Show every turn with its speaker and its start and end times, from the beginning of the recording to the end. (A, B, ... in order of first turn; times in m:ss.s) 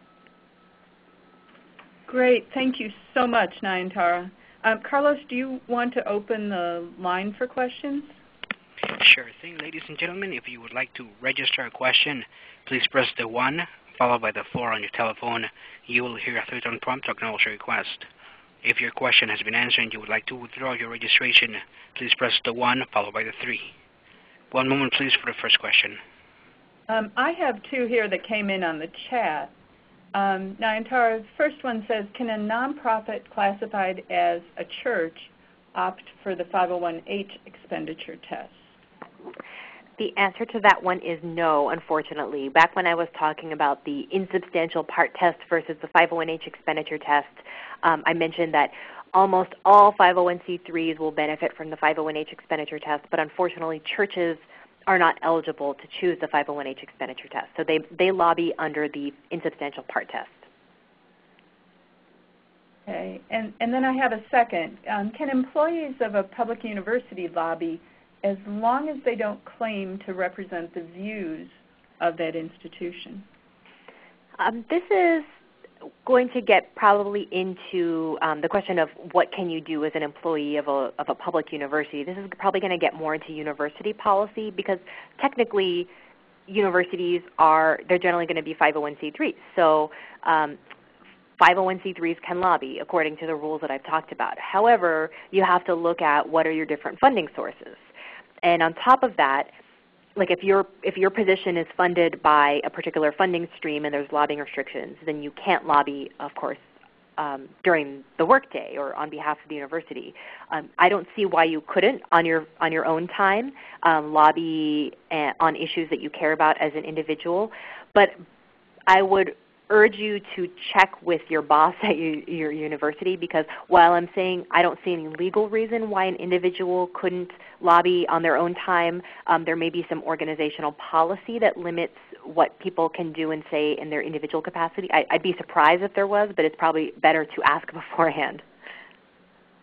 0:02.1-0:08.2 A
0:08.9-0:18.1 B
0:18.6-0:23.7 B
0:24.5-0:26.0 B
0:26.9-0:29.5 A
0:30.1-0:38.7 A
0:40.0-1:00.4 C
1:02.8-1:13.2 A
1:14.4-1:15.2 C
1:16.0-1:25.9 C
1:26.5-1:30.6 C
1:31.4-1:37.9 C
1:38.4-1:39.5 C
1:40.2-1:46.6 C
1:47.2-1:58.2 C
1:58.9-2:18.4 C